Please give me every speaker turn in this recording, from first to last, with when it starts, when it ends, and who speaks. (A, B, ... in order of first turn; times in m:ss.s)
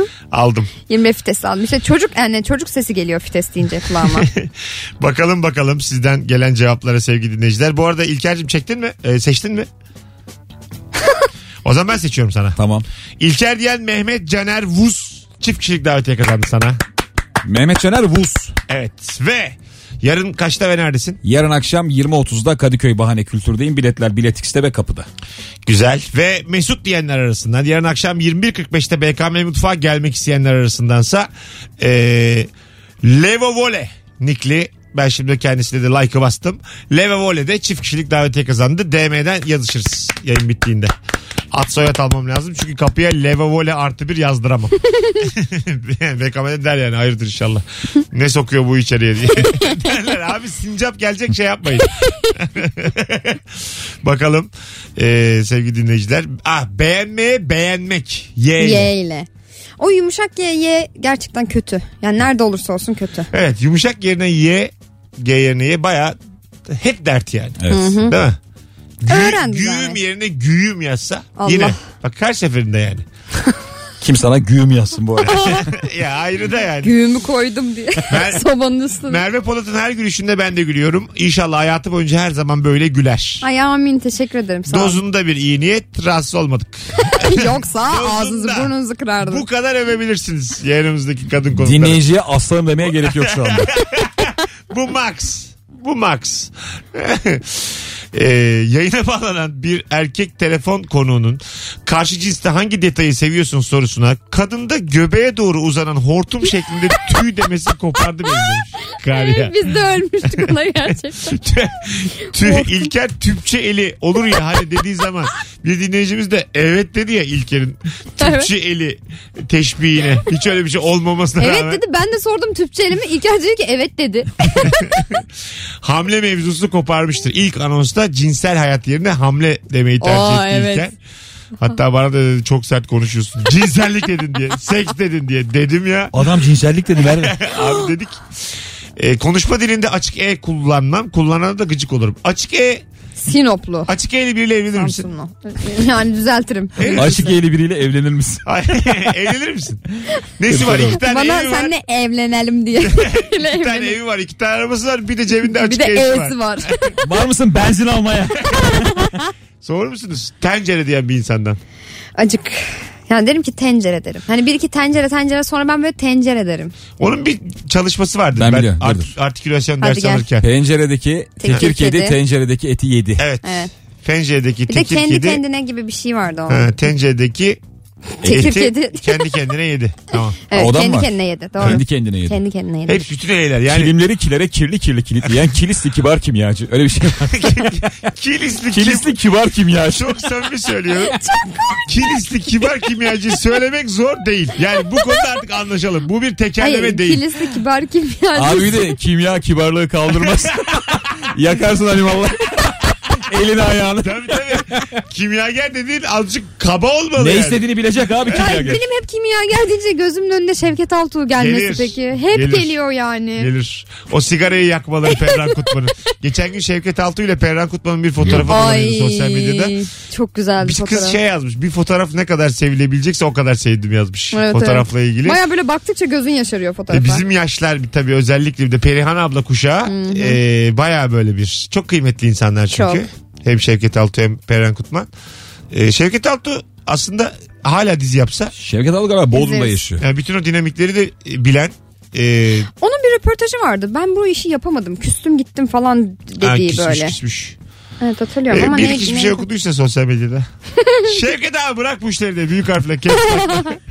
0:00.3-0:00.7 A
0:00.9-0:04.3 B
0:04.0-0:09.7 A
0:11.6-0:12.6 A
0:12.6-0:12.9 C
0:13.2-0:16.8 A
0:17.4-0:18.6 C
0:18.7-0:21.2 A
0:21.2-0:25.1 C
0:25.7-0:32.5 A
0:33.0-0:40.9 A
0:41.5-0:58.9 A
0:58.6-0:59.3 B
0:59.8-1:03.3 B
1:03.3-1:06.2 A
1:06.7-1:08.4 A
1:07.6-1:08.0 C
1:07.7-1:08.2 B
1:09.0-1:13.0 A
1:09.1-1:10.0 B
1:11.4-1:11.8 B
1:14.0-1:15.6 C
1:15.2-1:15.6 B
1:15.2-1:17.0 A
1:16.8-1:19.2 B
1:18.1-1:18.5 A
1:19.1-1:23.4 A
1:23.4-1:25.0 B
1:24.7-1:32.0 A
1:27.1-1:29.4 B
1:31.5-1:33.7 C
1:32.8-1:49.7 A
1:49.1-1:51.4 B
1:50.2-2:01.8 A
1:52.4-1:52.9 B
1:58.2-1:58.5 B
2:01.4-2:04.7 B
2:04.6-2:05.3 A
2:05.8-2:11.0 A
2:10.0-2:10.9 B
2:11.6-2:16.1 A
2:16.1-2:17.4 C
2:17.0-2:18.2 A
2:17.6-2:17.9 B
2:19.0-2:22.8 A
2:23.2-2:23.9 B
2:23.9-2:25.1 A
2:24.8-2:27.1 B
2:26.8-2:27.4 A
2:26.8-2:28.4 C
2:28.5-2:29.8 A
2:30.4-2:31.7 A
2:30.5-2:31.0 C
2:30.9-2:34.0 B
2:32.8-2:36.7 A
2:35.5-2:37.0 B
2:37.0-2:39.1 C
2:38.5-2:39.2 B
2:39.6-2:41.6 A
2:42.2-2:46.7 B
2:47.0-2:50.5 A
2:48.4-2:49.1 C
2:49.8-2:50.3 B
2:50.4-2:53.3 C
2:51.4-2:52.2 B
2:51.4-2:51.7 A
2:53.2-2:55.4 A
2:53.4-2:53.7 B
2:54.7-2:56.6 B
2:56.5-2:57.6 A
2:58.2-2:59.3 B
2:58.2-3:00.4 A
3:00.5-3:03.1 B
3:00.5-3:02.4 C
3:02.9-3:03.9 A
3:03.7-3:07.7 C
3:07.3-3:09.2 A
3:08.7-3:10.1 C
3:09.9-3:11.2 A
3:11.1-3:11.9 B
3:11.9-3:17.2 A
3:16.6-3:19.0 B
3:18.3-3:24.8 C
3:24.0-3:27.7 A
3:27.2-3:28.8 C
3:28.3-3:33.5 B
3:31.3-3:32.8 A
3:33.4-3:39.8 A
3:38.2-3:38.5 C
3:38.5-3:41.2 B
3:40.6-3:45.4 A
3:44.3-3:47.2 B
3:46.9-3:55.1 A
3:49.9-3:50.4 B
3:52.7-3:53.0 B
3:55.7-3:58.5 A
3:58.5-4:00.0 C
3:59.3-3:59.8 B
4:00.0-4:02.7 A
4:02.8-4:07.2 B
4:06.4-4:07.6 A
4:08.0-4:09.4 B
4:08.5-4:10.5 A
4:10.8-4:11.2 B
4:11.1-4:13.8 A